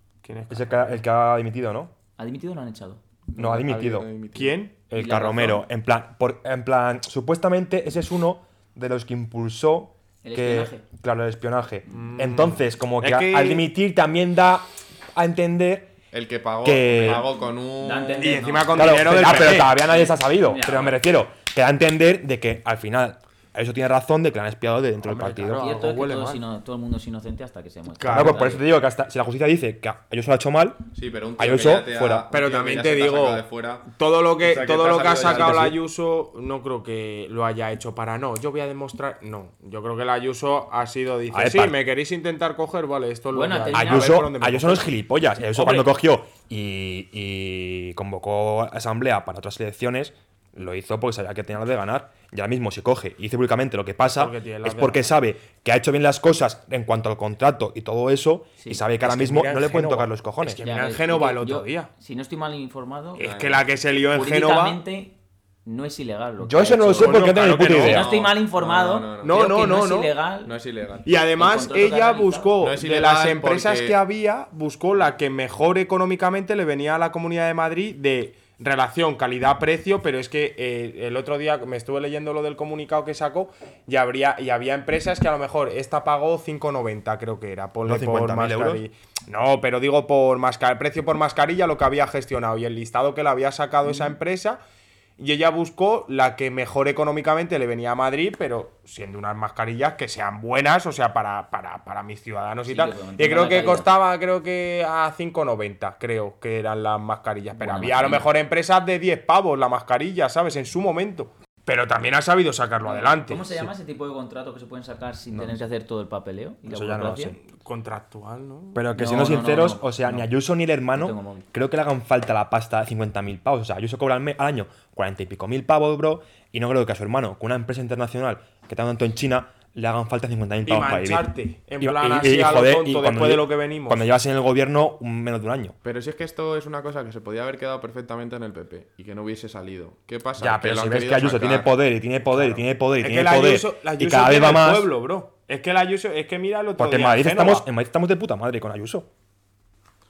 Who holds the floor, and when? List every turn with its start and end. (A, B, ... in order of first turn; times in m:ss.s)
0:00.2-0:00.8 A
0:00.5-0:01.9 B
0:02.2-0:03.0 C
0:03.3-0:04.6 D
0:03.4-0:04.1 B
0:04.3-0:05.1 A
0:04.9-0:15.9 B
0:05.0-0:05.6 C
0:10.2-0:10.8 C
0:11.9-0:13.6 A
0:16.1-0:18.6 D
0:16.6-0:17.3 B
0:17.8-0:21.0 C
0:18.2-0:19.7 A
0:18.7-0:25.6 B
0:25.0-0:26.4 A
0:25.5-0:28.6 C
0:28.0-0:28.4 A
0:28.1-0:30.8 B
0:30.9-0:33.9 D
0:31.4-0:32.2 B
0:32.3-0:44.9 A
0:34.4-0:35.7 D
0:35.2-0:35.8 B
0:41.3-0:41.8 B
0:43.3-0:44.2 C
0:43.7-1:00.6 B
0:45.6-0:45.8 C
0:54.1-0:55.1 A
0:58.6-0:58.8 C
0:59.0-1:01.9 A
1:00.6-1:03.3 C
1:03.2-1:04.8 A
1:03.2-1:03.6 D
1:04.1-1:10.5 C
1:06.4-1:08.1 B
1:07.0-1:08.1 A
1:07.9-1:09.4 D
1:09.2-1:10.1 A
1:10.4-1:11.0 D
1:11.0-1:34.6 A
1:11.4-1:12.5 C
1:12.6-1:14.0 D
1:27.8-1:28.8 B
1:35.2-1:53.4 A
1:42.7-1:43.9 C
1:47.6-1:48.3 C
1:52.8-1:57.4 C
1:56.7-1:57.4 B
1:57.4-1:58.8 A
1:58.7-2:11.3 B
1:58.9-2:00.3 C
2:00.9-2:01.4 C
2:10.6-2:14.0 A
2:11.8-2:15.8 B
2:15.8-2:21.7 D
2:20.4-2:24.9 B
2:23.0-2:27.6 A
2:26.8-2:29.1 B